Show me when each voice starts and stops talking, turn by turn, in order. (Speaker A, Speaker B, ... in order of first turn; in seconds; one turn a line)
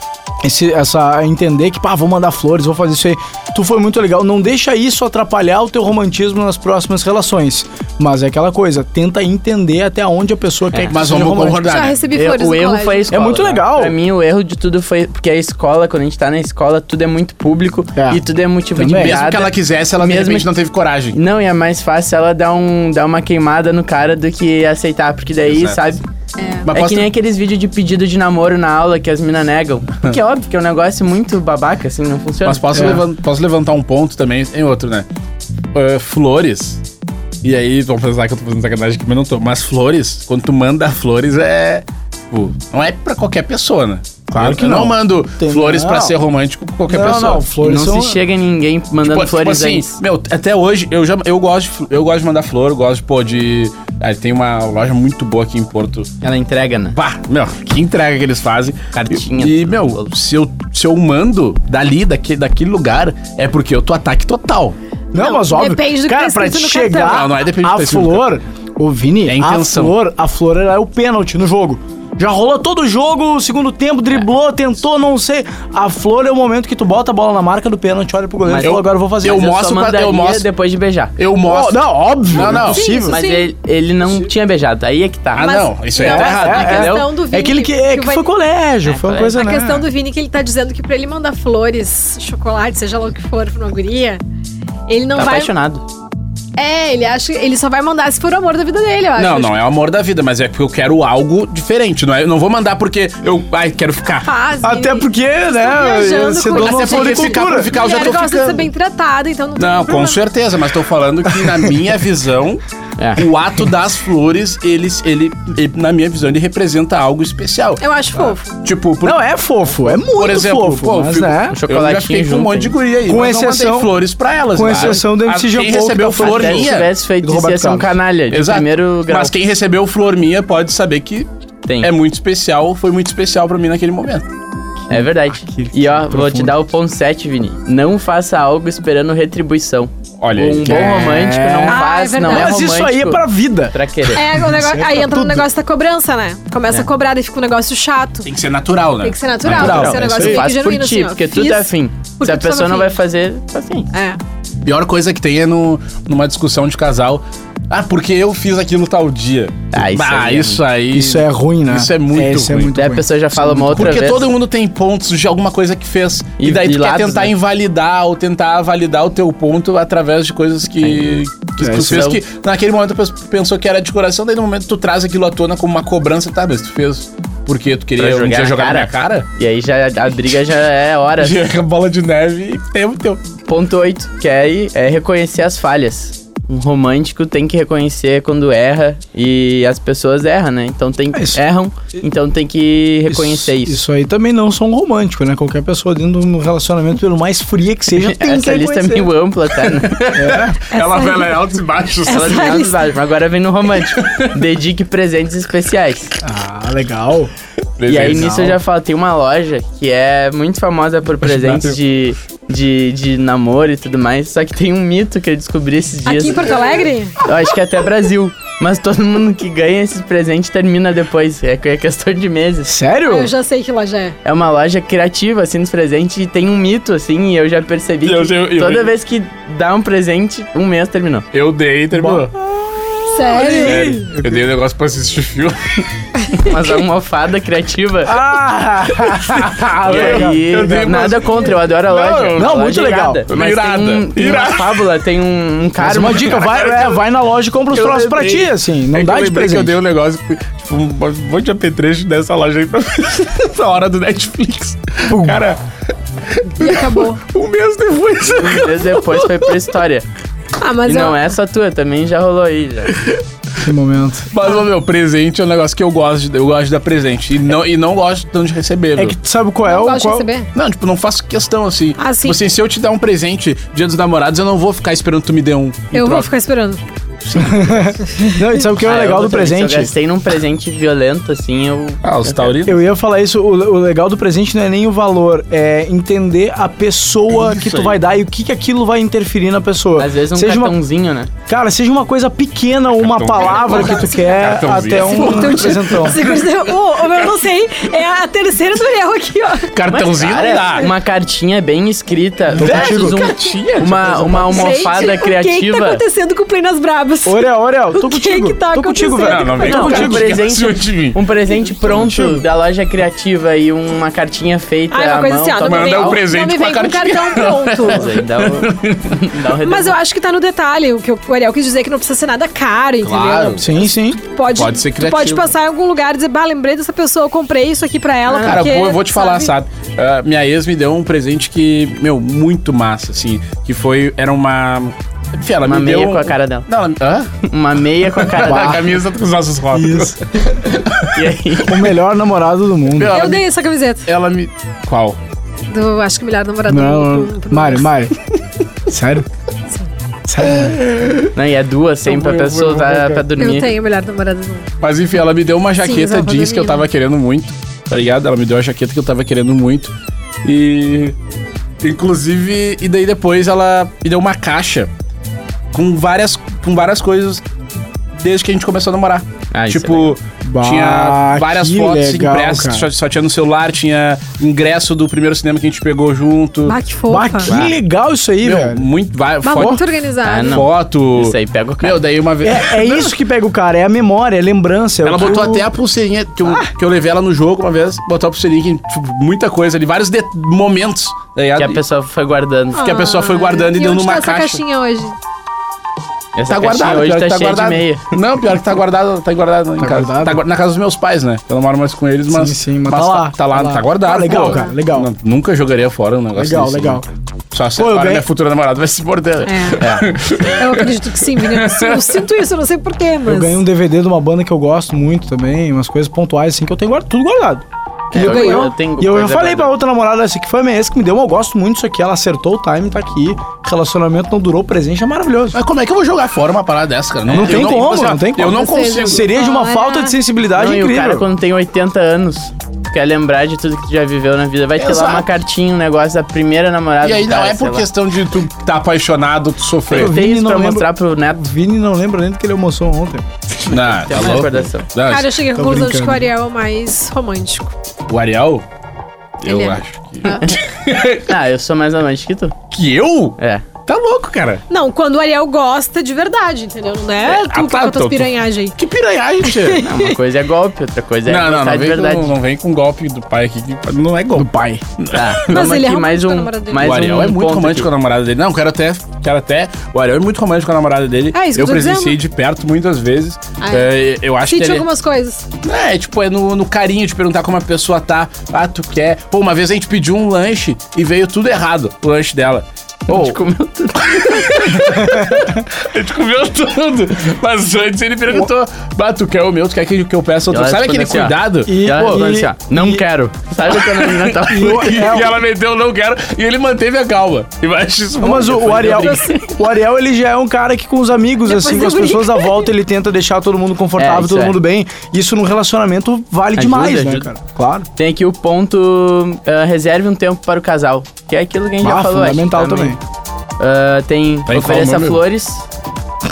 Speaker A: 0.4-11.7
Speaker B: 10.7-11.0
Speaker C: 10.9-12.0
Speaker D: 11.6-13.2
Speaker B: 12.1-20.5
Speaker A: 13.1-13.9
Speaker A: 18.0-18.2
Speaker A: 18.8-19.2
Speaker C: 18.9-21.2
Speaker B: 21.1-26.0
Speaker C: 25.5-25.9
Speaker D: 26.4-26.7
Speaker C: 26.7-27.1
Speaker B: 26.7-33.0
Speaker C: 32.4-35.1
Speaker A: 32.7-33.0
Speaker C: 35.7-36.8
Speaker C: 37.4-47.5
Speaker A: 44.3-46.2
Speaker A: 46.9-48.2
Speaker B: 47.0-50.0
Speaker C: 49.0-56.1
Speaker B: 56.2-57.0
Speaker C: 56.9-64.8
Speaker B: 58.9-60.1
Speaker D: 65.1-67.3
Speaker A: 65.1-79.5
Speaker C: 67.0-68.3
Speaker C: 69.3-69.9
Speaker B: 78.5-81.2
Speaker C: 78.6-80.5
Speaker C: 81.2-82.9
Speaker A: 81.5-83.2
Speaker D: 82.3-83.5
Speaker B: 83.0-87.1
Speaker C: 85.3-86.8
Speaker D: 86.0-88.3
Speaker A: 86.0-89.9
Speaker B: 88.8-89.4
Speaker D: 89.3-94.2
Speaker D: 94.9-95.5
Speaker B: 95.2-95.8
Speaker D: 96.6-99.6
Speaker C: 99.2-104.3
Speaker D: 104.2-110.2
Speaker A: 104.6-107.8
Speaker C: 106.5-108.7
Speaker C: 109.6-112.6
Speaker B: 113.0-113.2
Speaker C: 113.2-117.8
Speaker D: 117.8-118.5
Speaker C: 118.6-119.2
Speaker A: 119.0-121.6
Speaker C: 120.0-126.9
Speaker B: 121.5-122.8
Speaker A: 123.1-124.0
Speaker A: 124.5-128.0
Speaker B: 126.2-129.3
Speaker C: 128.3-131.3
Speaker B: 131.7-131.9
Speaker C: 131.8-134.3
Speaker A: 134.9-136.6
Speaker B: 134.9-144.3
Speaker C: 140.2-141.0
Speaker A: 140.6-145.4
Speaker D: 141.7-142.6
Speaker D: 144.1-148.3
Speaker C: 148.2-150.1
Speaker D: 149.0-153.0
Speaker A: 149.5-150.4
Speaker B: 149.5-153.9
Speaker D: 153.9-154.2
Speaker C: 154.6-162.7
Speaker B: 159.7-160.6
Speaker A: 160.9-164.0
Speaker B: 162.8-164.3
Speaker C: 163.7-179.3
Speaker B: 166.4-167.3
Speaker A: 171.6-172.2
Speaker B: 171.7-172.2
Speaker B: 178.0-181.4
Speaker C: 181.2-183.2
Speaker B: 183.5-193.8
Speaker A: 191.1-191.4
Speaker A: 193.1-199.1
Speaker B: 197.9-200.0
Speaker C: 199.7-202.6
Speaker A: 200.1-200.6
Speaker D: 200.7-201.4
Speaker D: 202.1-202.8
Speaker B: 202.1-206.1
Speaker C: 203.9-204.3
Speaker A: 206.2-207.3
Speaker C: 207.8-208.6
Speaker B: 207.9-216.6
Speaker A: 208.1-208.5
Speaker C: 211.2-211.8
Speaker D: 216.1-217.2
Speaker B: 217.2-222.8
Speaker A: 222.7-223.3
Speaker D: 223.0-224.2
Speaker B: 224.2-231.3
Speaker C: 228.0-228.9
Speaker C: 231.3-232.3
Speaker A: 231.9-232.3
Speaker D: 233.1-234.0
Speaker A: 233.2-234.4
Speaker C: 233.4-235.9
Speaker B: 236.4-238.2
Speaker A: 238.1-240.4
Speaker C: 239.0-242.6
Speaker B: 239.8-246.5
Speaker A: 242.3-243.2
Speaker C: 243.3-244.9
Speaker A: 245.8-249.8
Speaker C: 246.0-247.0
Speaker C: 247.7-255.6
Speaker A: 255.1-255.4
Speaker C: 256.3-259.5
Speaker D: 256.6-257.2
Speaker B: 258.4-260.1
Speaker D: 260.6-261.2
Speaker B: 260.9-263.0
Speaker A: 263.6-264.3
Speaker C: 264.3-269.2
Speaker A: 269.0-270.3
Speaker D: 269.6-270.5
Speaker C: 270.5-276.3
Speaker D: 272.0-272.4
Speaker D: 275.9-276.8
Speaker C: 277.3-277.9
Speaker A: 277.3-279.9
Speaker B: 278.8-282.6
Speaker C: 282.0-282.8
Speaker A: 282.6-290.8
Speaker C: 287.4-288.0
Speaker B: 290.0-291.3
Speaker A: 291.5-296.3
Speaker C: 293.0-297.3
Speaker D: 293.4-299.7
Speaker B: 293.6-294.2
Speaker C: 299.7-300.9
Speaker B: 299.9-306.0
Speaker C: 302.5-304.9
Speaker A: 302.6-303.3
Speaker D: 304.5-307.4
Speaker A: 307.2-310.4
Speaker D: 307.9-310.0
Speaker C: 309.1-311.2
Speaker B: 309.6-316.3
Speaker A: 311.6-312.4
Speaker D: 314.9-318.1
Speaker C: 315.6-319.3
Speaker B: 317.9-320.0
Speaker D: 319.6-329.5
Speaker C: 323.0-323.7
Speaker A: 323.6-324.2
Speaker C: 324.5-325.5
Speaker C: 328.3-337.4
Speaker B: 335.6-336.7
Speaker B: 337.4-339.0
Speaker C: 338.1-341.3
Speaker A: 338.4-338.9
Speaker A: 339.7-340.2
Speaker B: 341.1-341.9
Speaker A: 341.6-343.2
Speaker C: 342.9-343.5
Speaker D: 343.1-344.1
Speaker C: 344.1-345.2
Speaker D: 345.7-347.9
Speaker A: 346.7-348.2
Speaker A: 348.9-349.3
Speaker A: 350.3-350.8
Speaker C: 350.4-351.3
Speaker B: 351.3-353.7
Speaker C: 352.1-353.2
Speaker D: 353.4-354.7
Speaker C: 354.8-361.1
Speaker D: 355.8-356.9
Speaker C: 361.8-364.9
Speaker C: 365.7-367.4
Speaker C: 368.2-376.8
Speaker B: 369.5-370.2
Speaker A: 370.4-372.9
Speaker D: 376.7-377.5
Speaker A: 377.1-378.9
Speaker B: 377.5-377.8
Speaker C: 378.4-383.1
Speaker D: 379.4-380.6
Speaker A: 379.6-379.8
Speaker B: 380.2-382.0
Speaker A: 382.4-385.7
Speaker C: 385.0-391.8
Speaker B: 391.6-392.9
Speaker D: 392.7-395.1
Speaker C: 392.8-394.6
Speaker B: 396.4-398.1
Speaker C: 396.5-412.3
Speaker A: 399.8-400.4
Speaker A: 402.3-405.1
Speaker D: 404.2-404.8
Speaker A: 406.4-407.1
Speaker A: 407.8-408.3
Speaker D: 409.5-409.9
Speaker B: 409.8-410.1
Speaker D: 410.4-413.6
Speaker A: 413.2-425.6
Speaker B: 418.1-419.8
Speaker D: 418.2-418.7
Speaker C: 425.5-429.3
Speaker B: 427.3-427.8
Speaker A: 427.3-431.3
Speaker D: 428.4-430.2
Speaker B: 430.6-437.9
Speaker C: 434.8-435.3
Speaker C: 437.0-440.2
Speaker A: 439.9-443.3
Speaker B: 439.9-441.4
Speaker B: 443.6-444.9
Speaker C: 443.7-445.4
Speaker D: 445.0-447.8
Speaker A: 445.5-446.3
Speaker C: 448.1-448.6
Speaker C: 449.4-451.3
Speaker D: 449.4-450.5
Speaker B: 450.3-450.5
Speaker B: 451.2-452.6
Speaker C: 452.7-454.6
Speaker B: 453.4-453.6
Speaker D: 454.7-458.8
Speaker C: 457.2-459.9
Speaker D: 459.4-460.2
Speaker B: 459.8-462.3
Speaker C: 461.3-465.8
Speaker A: 464.4-464.8
Speaker B: 465.1-467.9
Speaker D: 465.4-467.0
Speaker C: 466.8-474.9
Speaker D: 471.3-472.2
Speaker D: 473.6-473.9
Speaker D: 474.5-475.5
Speaker C: 475.6-483.4
Speaker B: 483.1-484.9
Speaker C: 484.0-491.8
Speaker A: 485.0-485.6
Speaker B: 490.5-495.1
Speaker A: 491.7-493.0
Speaker C: 493.8-499.4
Speaker A: 494.5-495.4
Speaker A: 498.2-507.9
Speaker B: 498.4-499.4
Speaker D: 499.0-499.2
Speaker D: 501.4-502.7
Speaker B: 504.0-504.6
Speaker B: 506.5-507.3
Speaker B: 508.0-513.0
Speaker A: 511.8-513.0
Speaker B: 513.6-515.6
Speaker C: 514.5-515.2